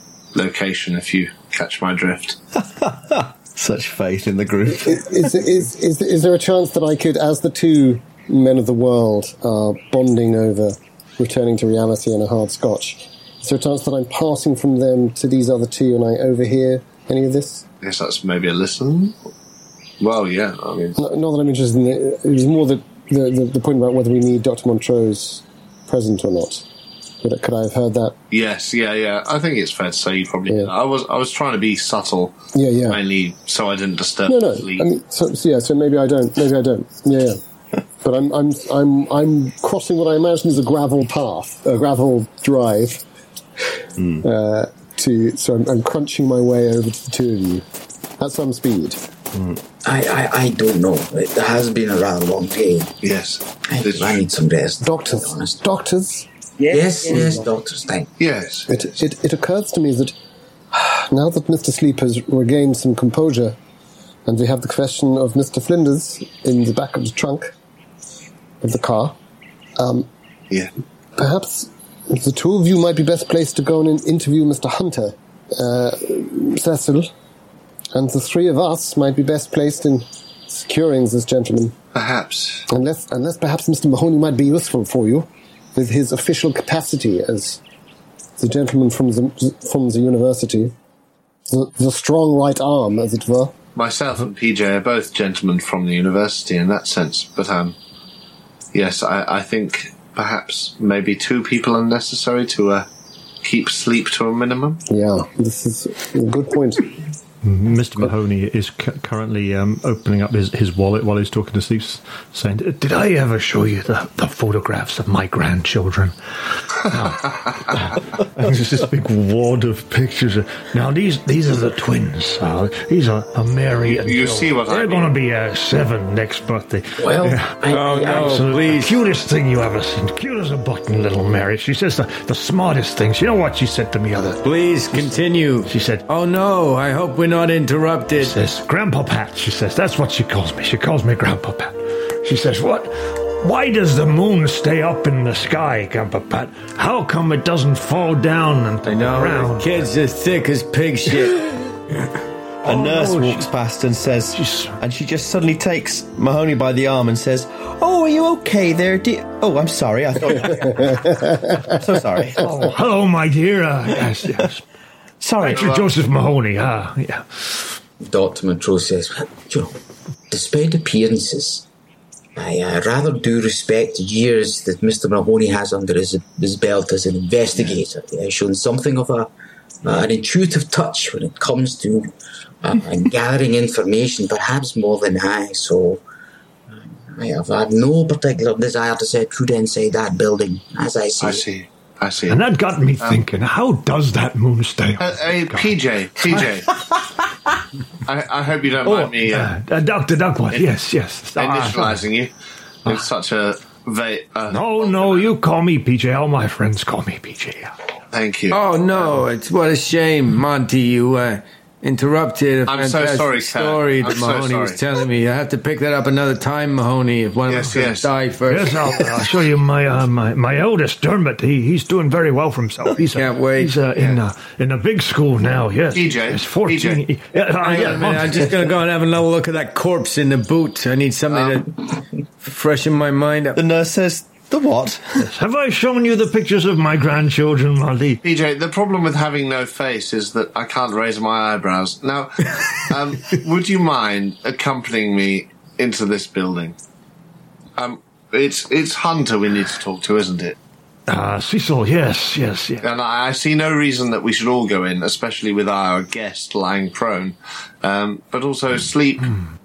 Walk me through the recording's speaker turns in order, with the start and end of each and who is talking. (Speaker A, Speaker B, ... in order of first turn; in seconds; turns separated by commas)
Speaker A: 0.3-2.4, Speaker B: 2.6-5.2, Speaker C: 4.8-17.6, Speaker A: 17.8-19.2, Speaker A: 20.0-21.0, Speaker C: 21.0-26.6, Speaker C: 27.2-28.1, Speaker A: 28.3-32.4, Speaker C: 32.5-33.0, Speaker A: 32.9-34.9, Speaker C: 34.3-37.4, Speaker C: 38.0-43.0, Speaker B: 44.0-44.2, Speaker C: 44.2-47.6, Speaker C: 48.2-49.0, Speaker B: 49.3-49.6, Speaker D: 49.8-52.9, Speaker A: 53.0-54.2, Speaker D: 53.7-55.6, Speaker C: 54.8-56.2, Speaker D: 56.6-58.1, Speaker A: 58.2-58.7, Speaker C: 58.7-60.1, Speaker C: 60.7-63.6, Speaker C: 64.2-67.5, Speaker C: 68.6-69.1, Speaker C: 69.8-70.1, Speaker C: 71.2-77.1, Speaker C: 77.9-81.7, Speaker A: 81.9-82.7, Speaker C: 82.7-87.6, Speaker C: 88.4-90.7, Speaker C: 91.5-93.5, Speaker A: 93.7-97.8, Speaker A: 98.7-102.9, Speaker A: 103.4-104.8, Speaker C: 104.9-107.0, Speaker E: 107.4-116.1, Speaker E: 116.7-134.4, Speaker A: 123.8-125.1, Speaker D: 127.0-128.4, Speaker F: 127.7-129.0, Speaker F: 134.4-138.4, Speaker E: 135.7-136.0, Speaker E: 138.2-149.8, Speaker F: 148.8-151.6, Speaker E: 152.6-153.4, Speaker B: 152.6-162.7, Speaker E: 154.3-154.7, Speaker C: 160.9-161.4, Speaker E: 162.4-164.6, Speaker B: 165.2-165.7, Speaker E: 165.4-167.7, Speaker A: 165.4-165.9, Speaker D: 168.0-169.8, Speaker D: 170.3-171.7, Speaker D: 172.3-179.3, Speaker D: 179.8-182.1, Speaker D: 182.6-186.0, Speaker D: 186.7-191.4, Speaker A: 191.2-192.4, Speaker E: 192.3-195.7, Speaker A: 195.0-196.7, Speaker A: 198.1-199.5, Speaker E: 198.8-202.0, Speaker A: 201.3-202.3, Speaker A: 202.8-205.3, Speaker E: 204.5-207.7, Speaker A: 208.1-208.6, Speaker F: 208.5-219.3, Speaker A: 212.7-214.8, Speaker A: 217.5-218.1, Speaker E: 218.5-228.6, Speaker F: 223.1-223.7, Speaker A: 225.9-227.0, Speaker F: 227.6-231.8, Speaker F: 232.4-233.6, Speaker B: 233.6-235.3, Speaker E: 235.2-238.2, Speaker A: 238.2-246.8, Speaker A: 247.8-250.6, Speaker E: 251.1-252.8, Speaker A: 252.8-259.4